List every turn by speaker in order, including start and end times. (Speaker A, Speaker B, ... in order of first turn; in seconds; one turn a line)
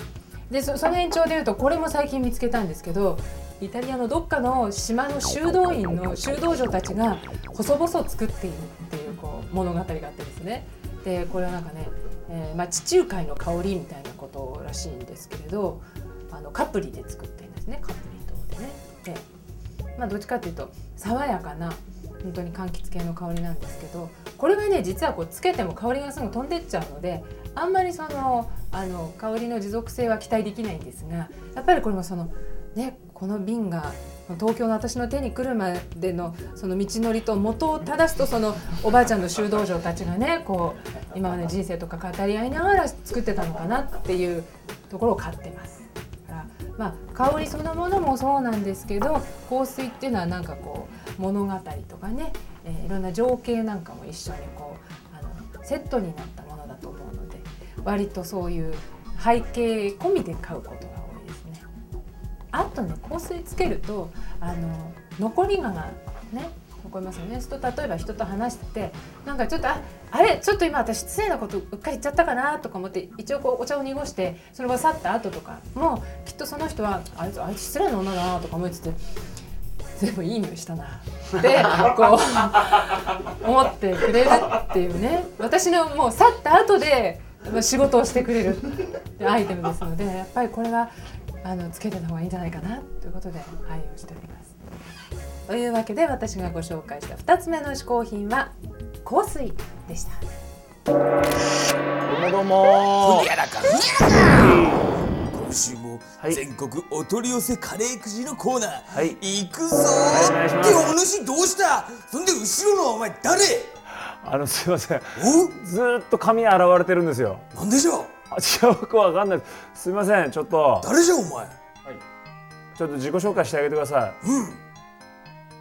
Speaker A: 0.5-19.2
Speaker A: 20.0-61.6
Speaker A: 62.5-79.0
Speaker A: 80.0-94.5
Speaker A: 95.5-100.2
Speaker B: 102.1-103.3
Speaker C: 103.0-104.4
Speaker B: 104.2-104.8
Speaker C: 105.3-113.7
Speaker B: 108.9-109.2
Speaker B: 110.1-110.9
Speaker B: 114.2-117.4
Speaker C: 115.2-115.5
Speaker C: 117.5-118.1
Speaker B: 118.3-120.9
Speaker C: 120.8-121.5
Speaker B: 122.8-124.2
Speaker C: 124.2-124.6